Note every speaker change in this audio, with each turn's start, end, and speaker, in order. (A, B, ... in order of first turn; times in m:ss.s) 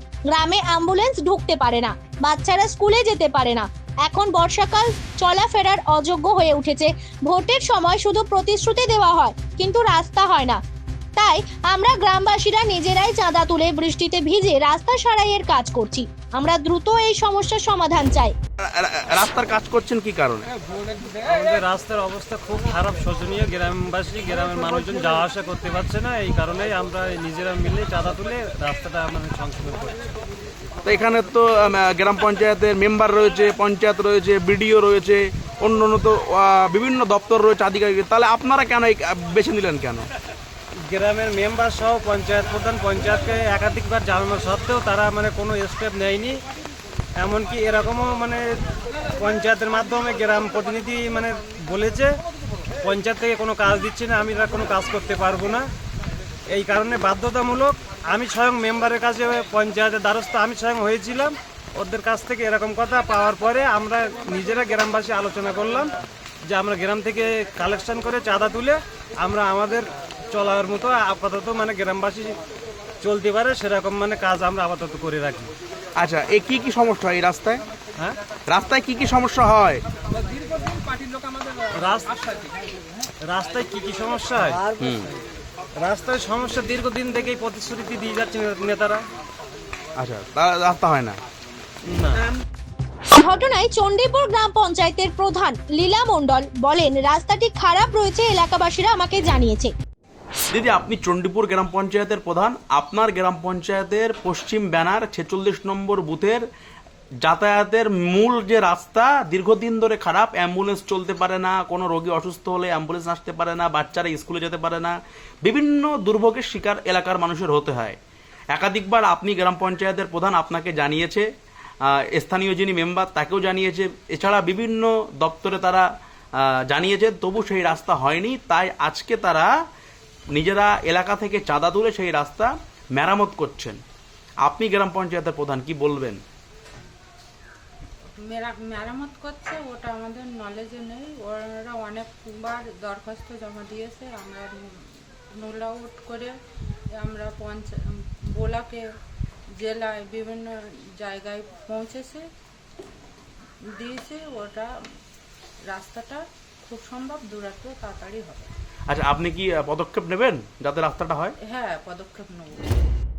0:00.3-0:10.6 A
0:11.2-0:18.3 A
0:18.6-0:20.5 B
0:21.1-0:30.0 C
0:30.8-0:40.1 B
0:40.8-0:46.4 C
0:47.2-0:48.6 C
0:49.1-0:52.2 C
0:52.8-0:55.7 C
0:56.5-1:12.4 C
1:13.0-1:15.5 C
1:16.0-1:17.6 B
1:18.5-1:19.8 B
1:21.7-1:22.2 C
1:23.2-1:24.7 C
1:24.7-1:25.1 B
1:25.8-1:29.0 C
1:30.0-1:31.2 B
1:31.8-1:32.2 C
1:33.2-1:39.7 A
1:40.5-1:46.4 B
1:47.2-1:58.0 B
1:58.5-2:01.2 B
2:01.8-2:09.5 B
2:10.3-2:13.8 B
2:14.4-2:16.2 B
2:18.2-2:24.5 D
2:25.4-2:26.3 D
2:27.0-2:27.7 D
2:28.3-2:28.8 D
2:29.6-2:30.5 D
2:31.0-2:32.2 D
2:33.8-2:34.7 D
2:35.7-2:38.5 D
2:38.9-2:41.4 B
2:41.5-2:42.8 D